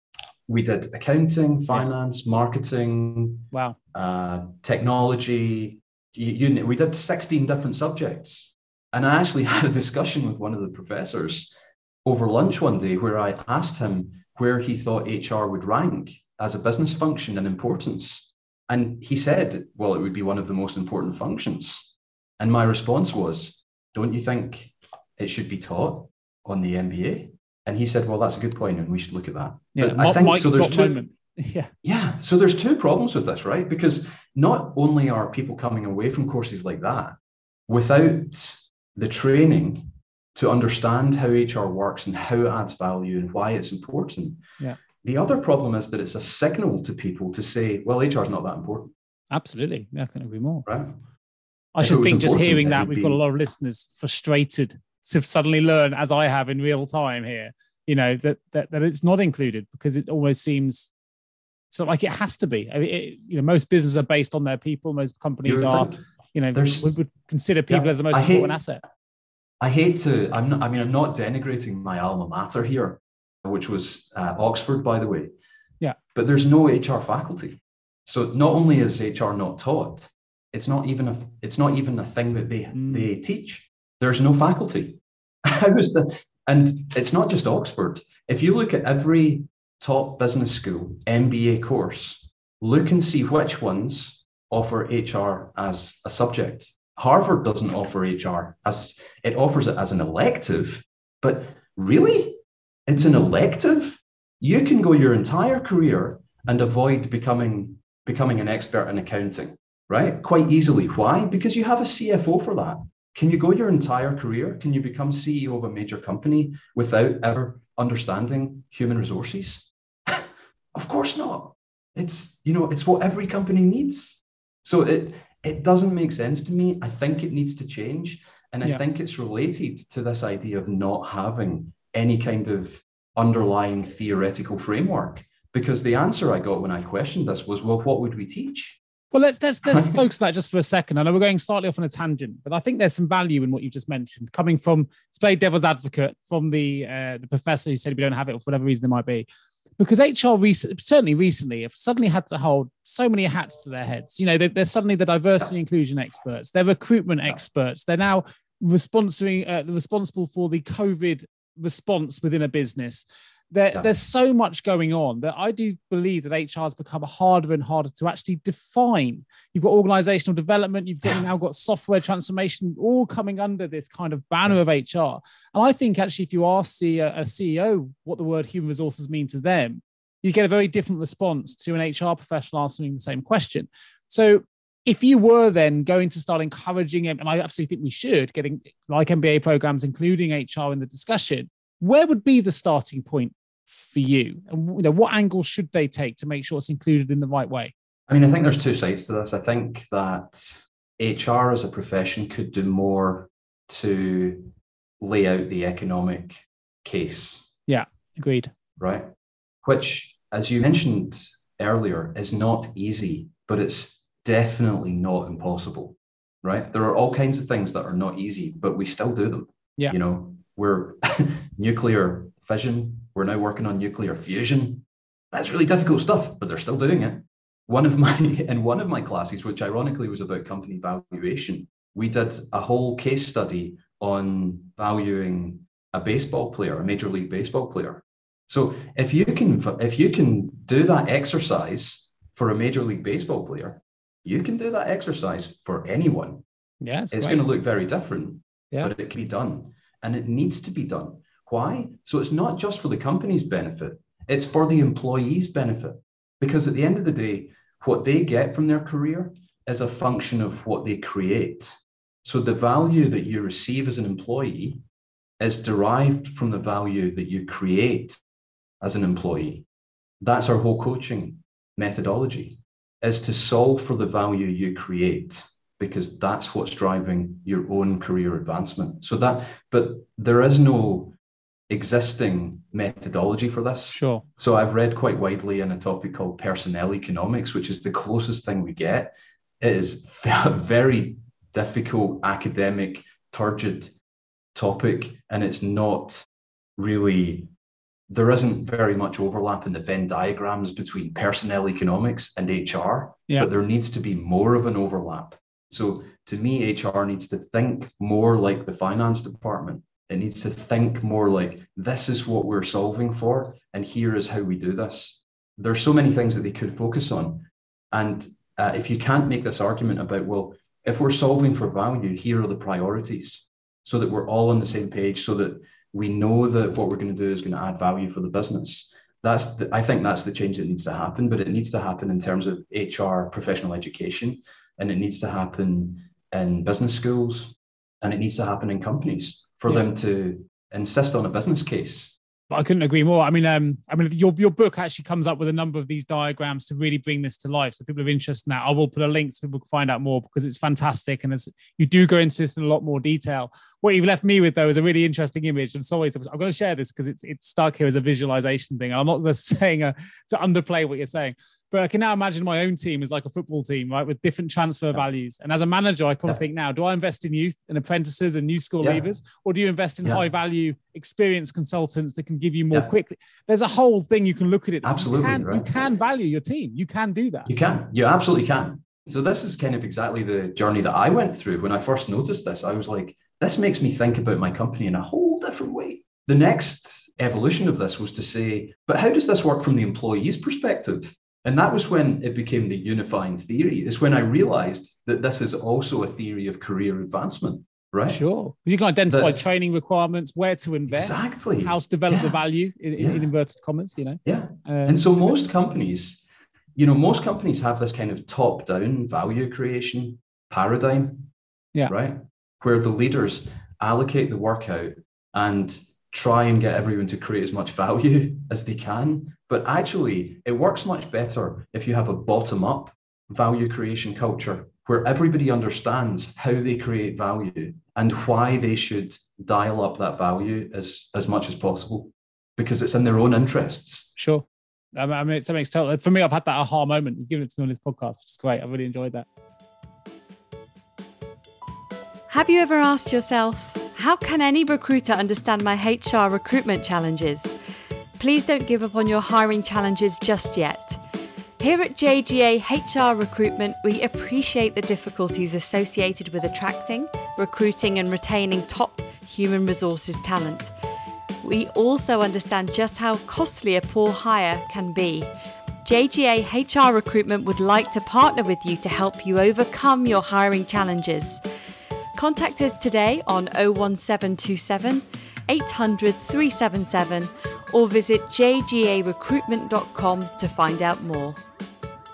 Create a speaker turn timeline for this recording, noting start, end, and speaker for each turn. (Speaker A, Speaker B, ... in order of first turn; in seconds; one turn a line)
Speaker A: 0.5-11.5
Speaker A: 12.0-31.0
Speaker B: 29.8-31.7
Speaker A: 31.8-37.1
Speaker A: 37.7-44.4
Speaker A: 45.0-48.9
Speaker B: 49.3-50.7
Speaker A: 50.6-51.0
Speaker B: 51.8-60.9
Speaker A: 51.8-53.2
Speaker B: 61.7-68.8
Speaker A: 65.4-66.0
Speaker A: 66.5-66.9
Speaker A: 67.7-68.6
Speaker A: 69.6-75.3
Speaker A: 76.1-138.8
Speaker B: 82.7-83.0
Speaker B: 139.1-149.3
Speaker A: 139.7-140.0
Speaker B: 149.8-197.7
Speaker A: 198.1-207.5
Speaker B: 207.7-208.5
Speaker A: 208.8-209.1
Speaker A: 209.6-246.4
Speaker B: 246.8-247.4
Speaker A: 247.1-264.8
Speaker A: 265.4-268.2
Speaker A: 268.8-269.6
Speaker A: 270.2-281.1
Speaker A: 281.7-293.9
Speaker B: 283.9-284.2
Speaker A: 294.5-296.2
Speaker A: 296.8-297.5
Speaker A: 298.1-342.1
Speaker B: 342.5-377.5
Speaker A: 374.8-375.7
Speaker A: 377.5-398.2
Speaker B: 398.1-405.1
Speaker A: 399.1-399.4
Speaker A: 400.9-402.4
Speaker A: 402.9-403.2
Speaker A: 404.2-406.2
Speaker A: 406.8-411.3
Speaker A: 411.9-434.1
Speaker B: 434.2-434.4
Speaker B: 434.9-439.2
Speaker C: 442.3-447.5
Speaker C: 448.2-451.0
Speaker C: 451.6-460.7
Speaker C: 461.4-465.3
Speaker C: 465.8-471.4
Speaker C: 472.1-481.4